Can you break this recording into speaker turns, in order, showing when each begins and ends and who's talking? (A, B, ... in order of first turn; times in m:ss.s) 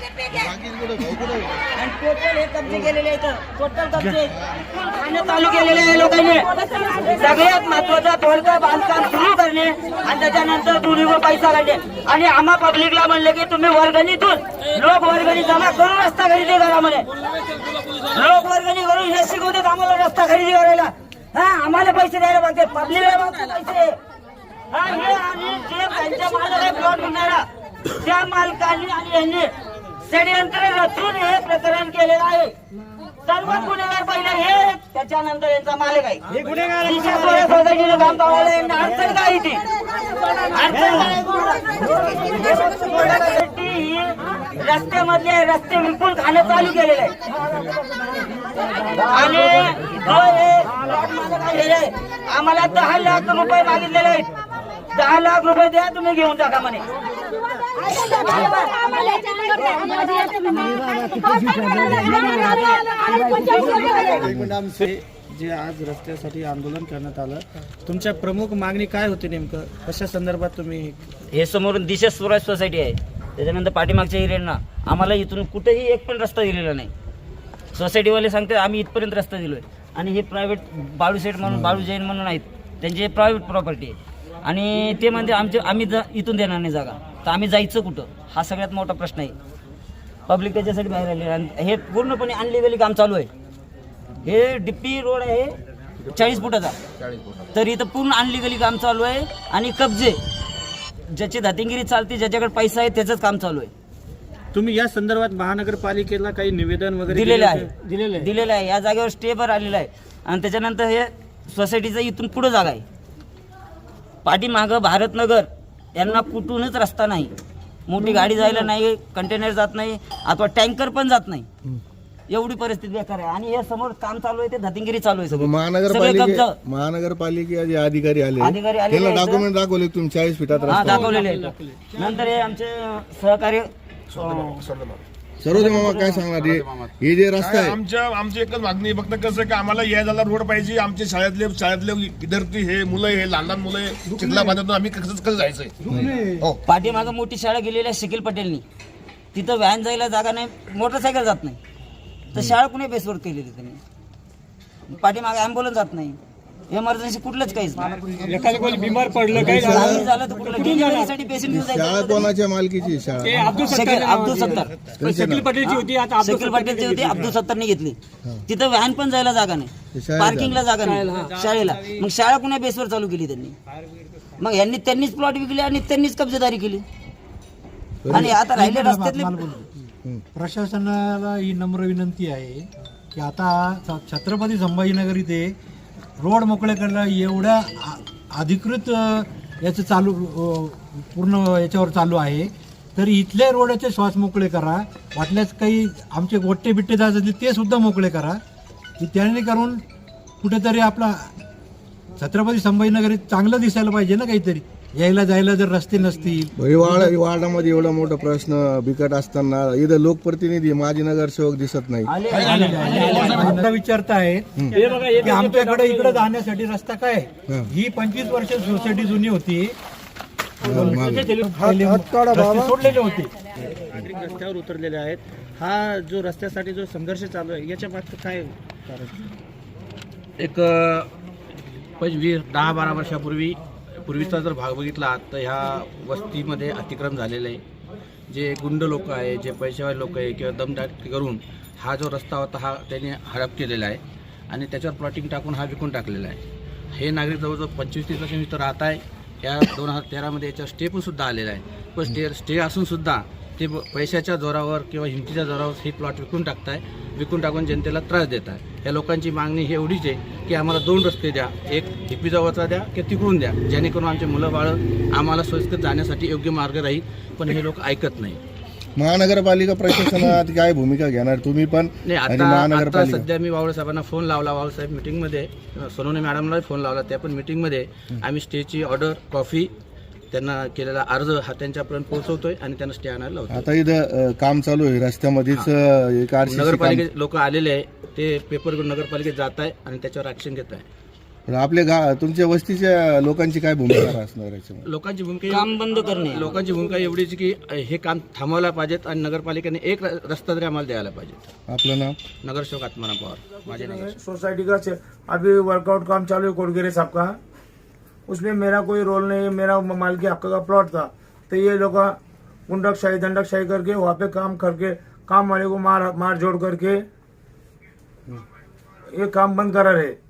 0:00.3-0:01.5 A
0:01.8-0:17.1 B
0:04.3-0:04.6 A
0:18.0-0:24.0 B
0:24.7-0:27.4 B
0:28.0-0:29.5 B
0:30.1-0:32.5 B
0:33.3-0:36.2 B
0:36.3-0:37.7 C
0:36.8-0:39.6 B
0:40.5-0:47.6 B
0:49.0-0:54.3 B
0:54.9-0:56.9 B
0:58.0-0:59.1 B
0:59.8-1:03.7 B
1:03.6-1:11.0 C
1:04.2-1:04.6 A
1:11.3-1:16.9 B
1:17.8-1:29.3 B
1:21.4-1:21.9 A
1:30.3-1:33.3 B
1:34.2-1:35.6 B
1:36.1-1:36.8 B
1:37.5-1:40.2 B
1:41.1-1:43.7 B
1:44.5-1:47.7 C
1:47.1-1:52.8 B
1:54.2-1:57.3 B
1:57.9-2:01.5 B
2:02.3-2:06.6 B
2:05.3-2:11.2 A
2:08.4-2:09.5 B
2:10.7-2:14.7 B
2:14.1-2:15.0 D
2:15.4-2:17.8 A
2:15.5-2:16.3 B
2:17.4-2:25.9 D
2:25.9-2:26.2 A
2:26.7-2:28.6 B
2:29.3-2:31.6 B
2:32.3-2:33.8 B
2:34.9-2:36.2 B
2:36.7-2:37.9 B
2:38.3-2:39.7 E
2:39.3-2:42.3 B
2:39.3-2:40.1 A
2:40.7-2:41.1 E
2:41.5-2:43.8 A
2:43.5-2:44.7 B
2:45.0-2:45.6 A
2:45.0-2:46.8 E
2:45.6-2:48.0 B
2:48.5-2:53.6 B
2:49.9-2:50.6 A
2:54.4-2:56.8 B
2:58.0-2:58.3 A
2:58.1-2:59.5 B
2:58.1-2:59.7 F
3:00.4-3:05.6 F
3:06.2-3:18.4 F
3:19.0-3:19.8 F
3:20.4-3:21.3 F
3:22.2-3:27.1 F
3:26.6-3:32.1 A
3:32.1-3:33.5 B
3:32.3-3:39.8 F
3:34.8-3:36.2 C
3:40.6-3:41.4 A
3:40.6-3:43.3 F
3:43.9-3:49.2 C
3:50.4-3:51.1 G
3:52.0-3:57.6 G
3:58.3-4:06.4 G
4:06.9-4:28.4 G
4:29.0-4:33.3 A
4:32.0-4:39.7 G
4:40.3-4:43.7 G
4:43.5-4:47.0 A
4:46.5-4:50.9 G
4:51.5-4:54.9 A
4:54.8-5:01.5 G
4:55.5-4:56.5 B
5:01.7-5:02.2 A
5:02.3-5:04.2 G
5:04.1-5:07.4 H
5:08.3-5:12.2 H
5:12.7-5:17.0 H
5:19.2-5:20.2 H